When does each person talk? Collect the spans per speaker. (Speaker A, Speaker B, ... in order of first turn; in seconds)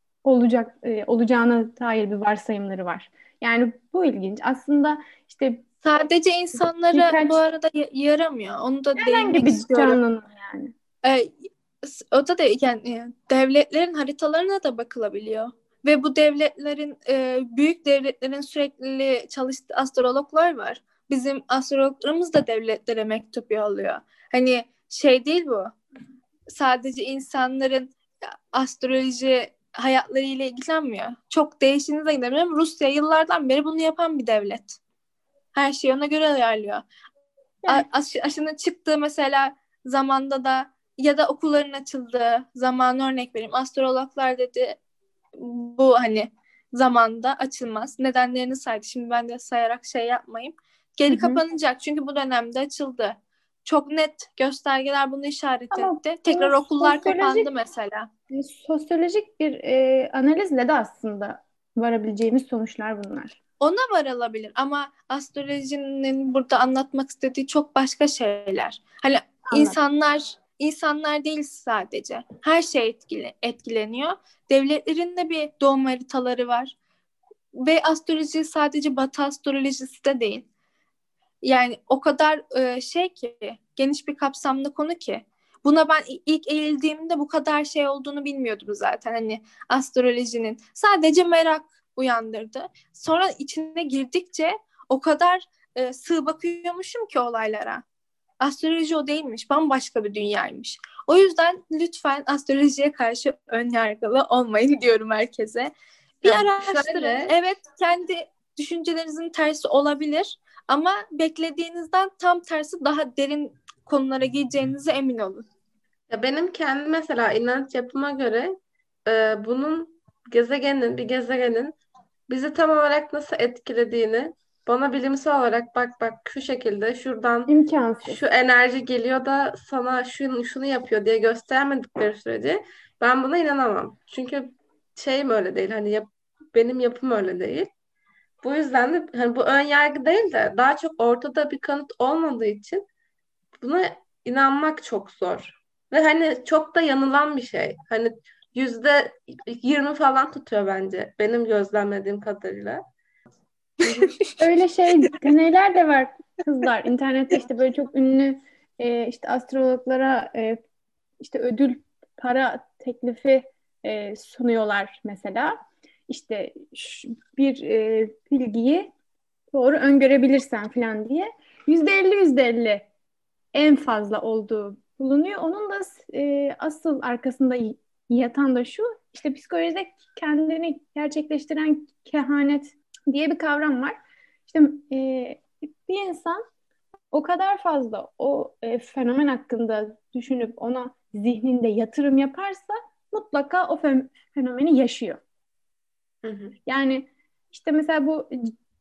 Speaker A: 0.2-5.6, 6.6-7.4, 9.0-10.7, 51.1-51.4, 55.7-57.5, 58.3-63.4, 69.5-69.8, 127.5-128.2, 154.4-160.6, 161.2-168.9, 169.5-172.9, 173.5-186.4, 187.1-195.2, 196.7-198.5
Speaker B: 5.8-10.0, 11.0-25.7, 26.5-34.8, 35.5-36.8, 37.7-44.8, 45.4-58.1, 63.6-76.7, 77.6-80.5, 81.4-97.8, 98.4-105.7, 106.2-115.5, 153.8-154.4
Speaker C: 106.2-107.3, 116.1-118.5, 119.0-121.7, 122.3-137.7, 138.4-142.8, 143.6-152.8, 196.2-196.6